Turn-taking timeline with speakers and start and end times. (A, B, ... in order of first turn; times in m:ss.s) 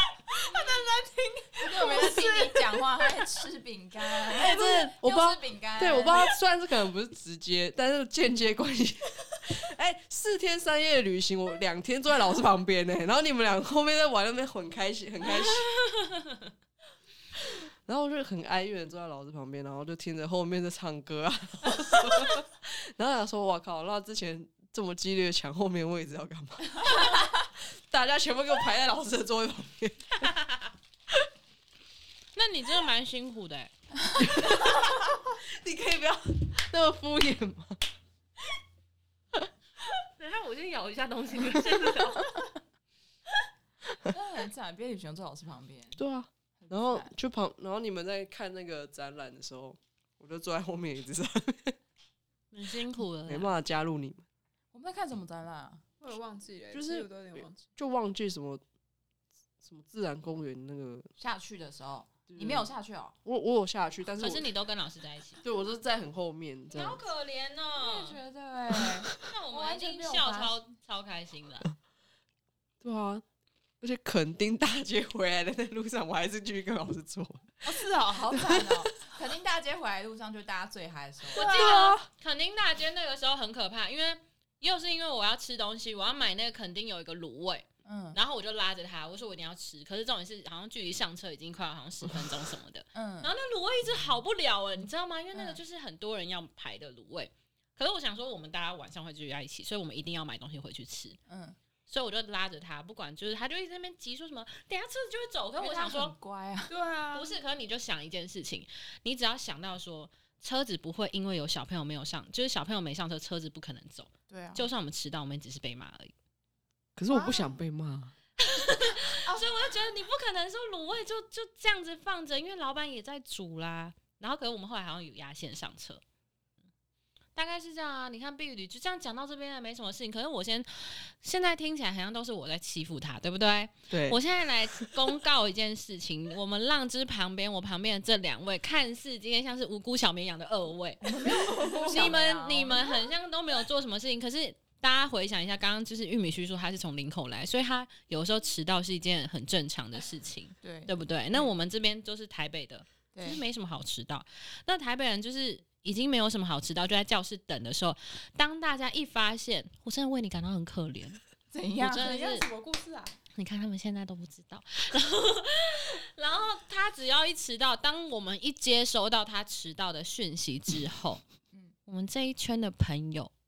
0:00.4-0:03.0 A
0:01.6-0:06.3 B
0:04.3-0:15.9 C
0:17.9-0:30.3 C
0:30.3-0:30.6 D
0:32.4-0:33.7 D
0:34.2-0:37.8 C
0:40.2-0:42.5 D
0:44.1-0:46.0 B
0:46.0-0:51.8 C
0:46.6-0:47.1 B
0:52.5-0:53.5 D
0:53.3-0:54.2 C
0:54.7-0:55.8 B
0:56.0-0:57.6 A
0:56.7-0:58.6 C
0:59.6-1:01.1 C
1:01.2-1:03.2 B
1:02.3-1:02.7 C
1:03.2-1:04.5 C
1:04.2-1:05.4 D
1:05.4-1:07.0 C
1:06.7-1:08.2 D
1:07.7-1:10.6 B
1:09.2-1:11.7 D
1:12.8-1:13.2 C
1:13.8-1:17.7 C
1:17.6-1:21.7 B
1:17.9-1:18.2 A
1:18.3-1:19.1 C
1:21.4-1:21.9 A
1:21.4-1:41.2 D
1:21.6-1:22.0 C
1:27.8-1:28.2 B
1:32.9-1:33.3 B
1:35.3-1:35.6 B
1:41.3-1:41.6 B
1:41.9-1:46.1 D
1:45.6-1:46.7 B
1:46.7-1:47.4 A
1:47.1-1:56.1 D
1:54.3-1:54.7 B
1:57.0-1:58.1 C
1:57.1-1:57.5 B
1:58.4-2:06.0 D
2:07.4-2:41.2 D
2:13.9-2:14.2 C
2:21.0-2:22.9 B
2:21.5-2:22.2 C
2:30.6-2:31.5 B
2:33.1-2:33.4 B
2:41.5-2:42.2 B
2:41.8-2:42.5 D
2:41.9-2:43.2 A
2:43.4-2:51.2 D
2:51.9-2:53.3 D